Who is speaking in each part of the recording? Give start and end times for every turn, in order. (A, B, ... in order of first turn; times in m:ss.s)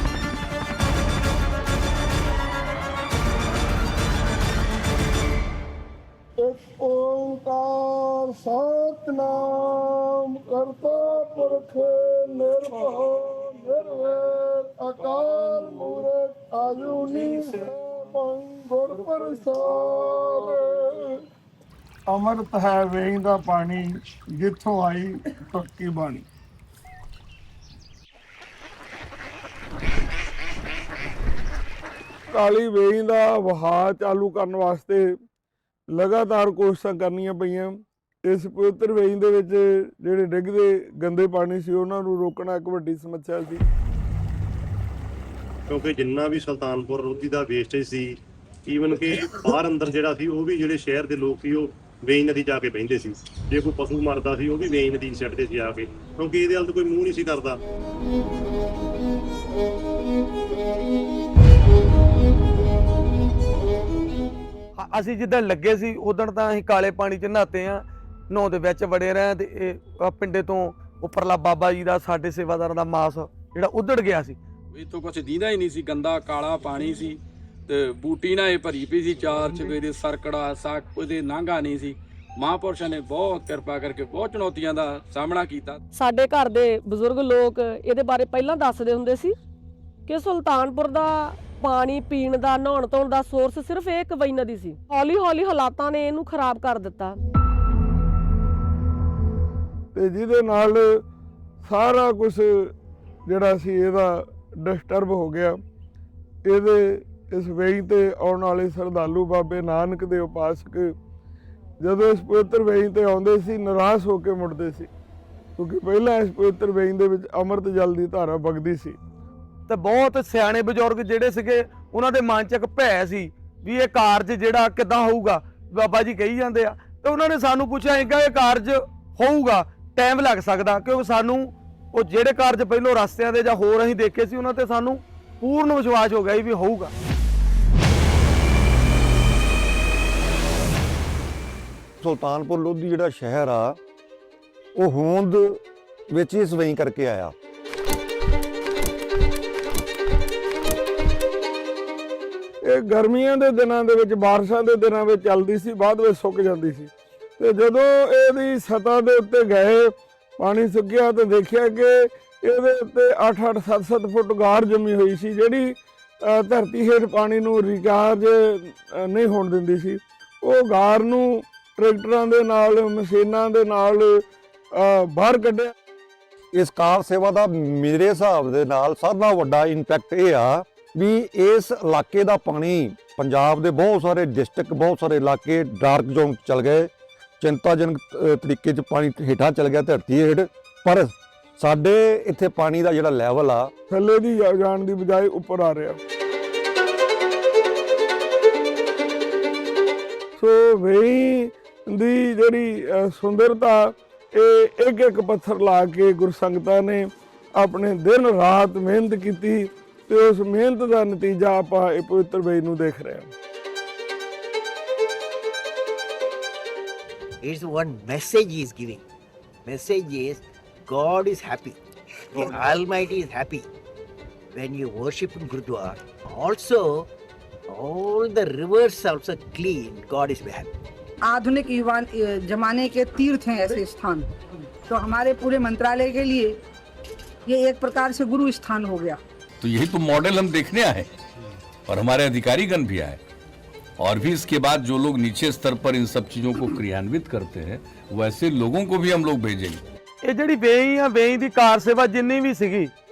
0:06.4-0:21.2 A
0:22.1-0:26.2 A
0:32.3-0:35.1 A
0:35.9-0:43.6 A
0:45.7-0:57.6 B
1:04.8-1:14.4 C
1:14.7-1:25.8 D
1:25.9-1:29.3 E
1:30.0-1:37.2 E
1:39.9-1:41.0 A
1:41.6-1:42.7 A
1:43.2-1:45.6 A
1:46.4-1:50.9 A
1:51.8-1:54.9 A
1:55.6-1:59.0 A
1:59.7-2:16.9 C
2:22.0-2:23.8 F
2:24.8-2:27.3 F
2:32.6-2:55.7 A
2:56.5-3:13.7 F
3:13.9-3:16.0 A
3:20.4-3:33.3 A
3:37.4-3:39.0 G
3:39.6-3:41.8 G
3:42.3-3:43.6 G
3:44.5-3:47.0 G
3:47.7-3:50.7 G
3:51.2-3:54.3 H
3:54.9-3:56.6 H
3:57.5-3:59.2 H
3:59.6-4:01.1 I
4:01.9-4:03.2 I
4:04.0-4:09.8 I
4:10.2-4:12.9 C